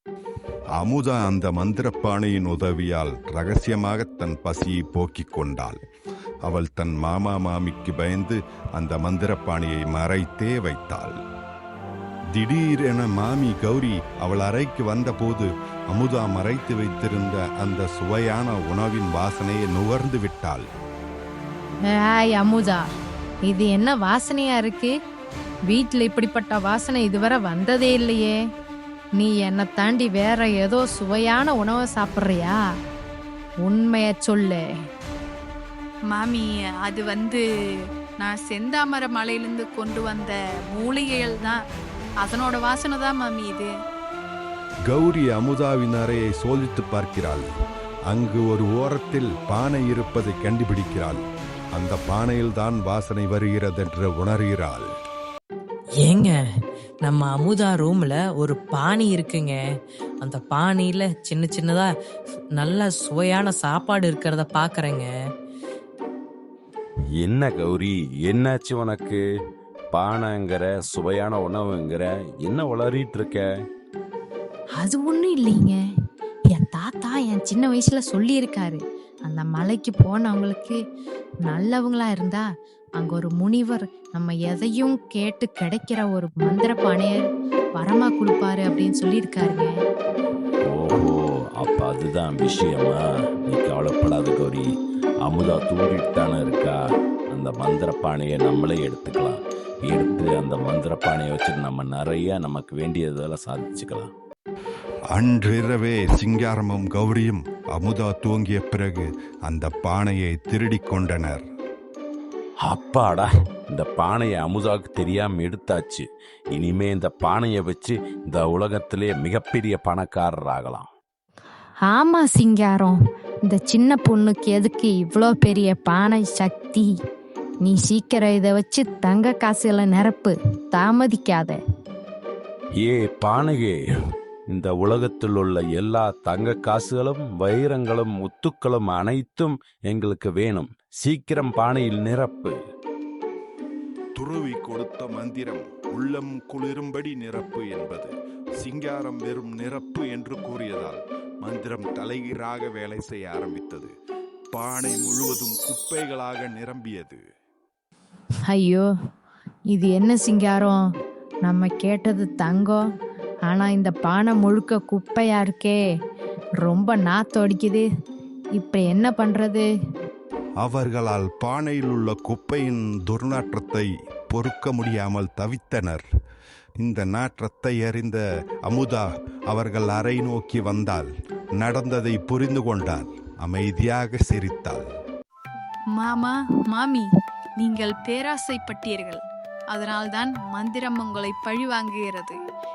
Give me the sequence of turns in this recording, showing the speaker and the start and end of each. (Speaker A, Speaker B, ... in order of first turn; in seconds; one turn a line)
Speaker A: 0.8-5.8
Speaker A: 6.5-11.2
Speaker A: 12.3-20.7
Speaker B: 22.0-22.8
Speaker B: 23.5-24.9
Speaker B: 25.7-28.4
Speaker B: 29.2-32.6
Speaker B: 33.6-34.6
Speaker C: 36.1-37.4
Speaker C: 38.2-41.6
Speaker C: 42.2-43.7
Speaker A: 44.9-47.5
Speaker A: 48.1-51.2
Speaker A: 51.7-54.9
Speaker D: 56.0-56.5
Speaker D: 57.0-59.7
Speaker D: 60.2-61.9
Speaker D: 62.5-65.2
Speaker E: 67.2-69.2
Speaker E: 69.9-73.4
Speaker B: 74.8-75.8
Speaker B: 76.5-80.8
Speaker B: 81.5-82.5
Speaker B: 83.0-87.2
Speaker B: 87.8-89.7
Speaker E: 90.7-94.7
Speaker E: 95.3-96.8
Speaker E: 97.3-104.1
Speaker A: 105.1-111.4
Speaker E: 112.6-120.9
Speaker B: 121.9-123.0
Speaker B: 123.5-126.9
Speaker B: 127.6-131.6
Speaker E: 132.8-133.8
Speaker E: 134.5-142.6
Speaker A: 144.2-153.9
Speaker A: 154.5-157.2
Speaker B: 158.5-158.9
Speaker B: 159.7-160.8
Speaker B: 161.4-162.8
Speaker B: 163.5-165.8
Speaker B: 166.6-167.9
Speaker B: 168.6-169.7
Speaker A: 170.6-176.1
Speaker A: 176.8-184.9
Speaker C: 186.0-187.1
Speaker C: 187.6-189.2
Speaker C: 189.7-192.4